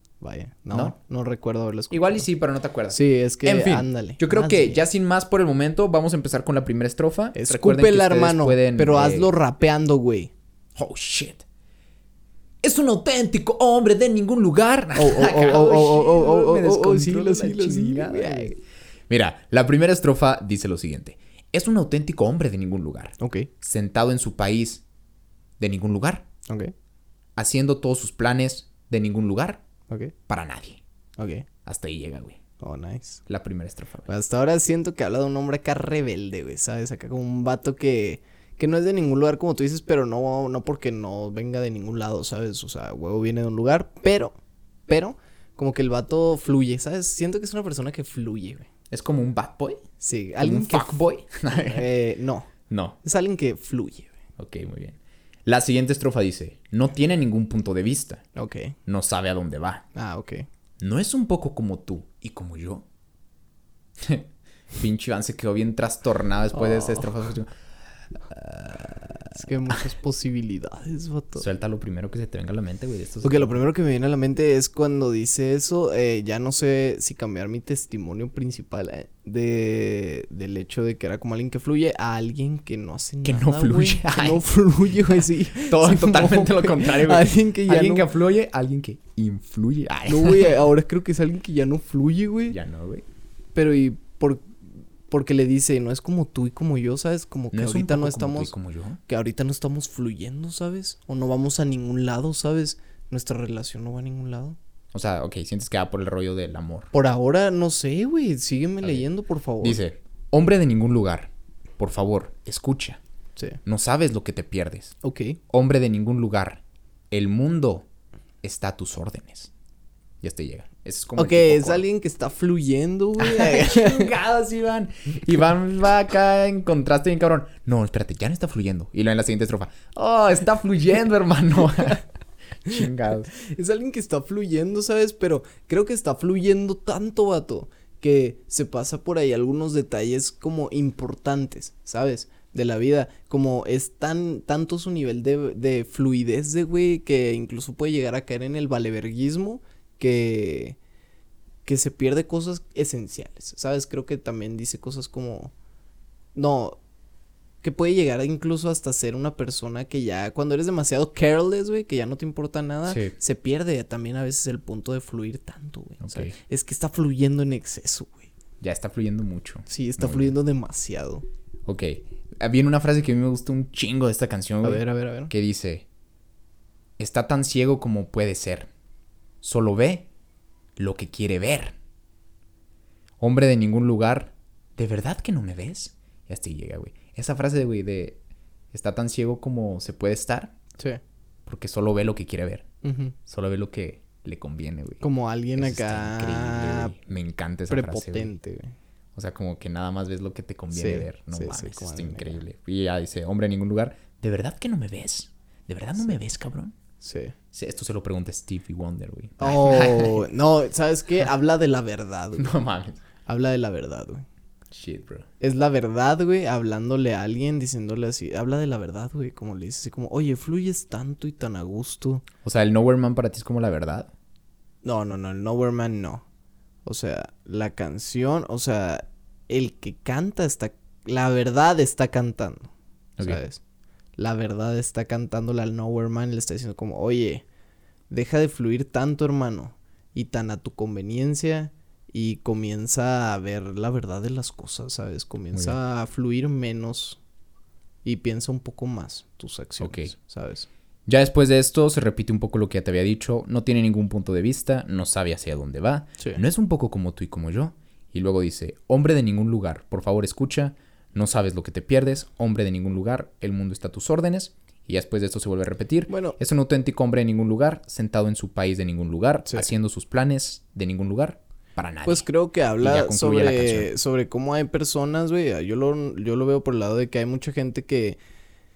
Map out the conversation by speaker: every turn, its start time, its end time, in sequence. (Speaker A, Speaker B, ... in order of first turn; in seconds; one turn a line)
Speaker A: 0.2-2.2
Speaker B: 1.9-9.3
Speaker A: 2.9-4.8
Speaker A: 7.3-10.3
Speaker B: 10.8-11.4
Speaker B: 12.6-24.8
Speaker A: 14.9-18.6
Speaker A: 23.2-23.5
Speaker B: 25.6-26.2
Speaker B: 27.4-29.6
Speaker A: 29.9-30.1
Speaker B: 30.3-30.8
Speaker A: 31.2-31.4
Speaker B: 31.6-32.4
Speaker A: 32.6-33.2
Speaker B: 33.3-34.1
Speaker A: 34.1-44.3
Speaker A: 44.9-48.7
Speaker B: 48.9-49.8
Speaker A: 50.0-52.5
Speaker B: 50.4-51.9
Speaker B: 52.7-53.0
Speaker A: 53.0-54.1
Speaker B: 54.4-58.2
Speaker A: 58.4-58.7
Speaker B: 58.9-59.8
Speaker A: 59.9-60.5
Speaker B: 60.8-62.8
Speaker B: 64.0-67.5
Speaker A: 66.5-67.1
Speaker B: 68.3-69.4
Speaker A: 69.3-71.4
Speaker B: 71.4-73.6
Speaker A: 73.2-88.1
Speaker B: 83.2-84.4
Speaker B: 85.0-90.6
Speaker A: 90.0-92.6
Speaker B: 92.5-93.0
Speaker A: 93.5-94.5
Speaker A: 95.1-98.5
Speaker B: 97.5-99.0
Speaker A: 99.1-104.6
Speaker B: 104.9-106.9
Speaker A: 106.9-109.8
Speaker B: 109.6-113.0
Speaker B: 113.6-114.9
Speaker A: 115.0-115.4
Speaker B: 115.5-117.8
Speaker B: 118.4-119.5
Speaker B: 120.2-121.8
Speaker A: 121.2-124.1
Speaker B: 123.2-132.0
Speaker B: 132.6-133.3
Speaker A: 133.4-150.8
Speaker A: 151.6-155.5
Speaker A: 156.3-156.8
Speaker A: 157.6-168.3
Speaker B: 162.9-163.1
Speaker B: 166.0-166.3
Speaker B: 168.6-170.3
Speaker A: 169.7-171.2
Speaker B: 171.7-175.8
Speaker A: 174.6-175.3
Speaker B: 177.0-178.7
Speaker B: 179.4-180.1
Speaker B: 180.8-181.7
Speaker B: 183.2-188.2
Speaker B: 188.7-190.5
Speaker B: 191.4-192.6
Speaker A: 192.8-193.1
Speaker B: 193.3-195.0
Speaker A: 195.0-196.9
Speaker B: 195.6-198.3
Speaker A: 197.7-198.7
Speaker B: 199.1-206.7
Speaker A: 200.7-202.4
Speaker A: 207.0-207.3
Speaker B: 207.5-210.2
Speaker A: 209.4-212.6
Speaker B: 212.4-213.0
Speaker A: 213.2-214.2
Speaker B: 214.7-215.3
Speaker A: 215.4-222.2
Speaker B: 222.4-224.1
Speaker A: 224.8-226.2
Speaker A: 226.8-233.6
Speaker A: 234.2-237.4
Speaker A: 238.1-247.2
Speaker B: 245.5-245.8
Speaker A: 248.0-250.7
Speaker B: 249.8-250.1
Speaker B: 251.1-272.2
Speaker A: 266.1-266.4
Speaker A: 272.0-278.2
Speaker B: 272.8-273.9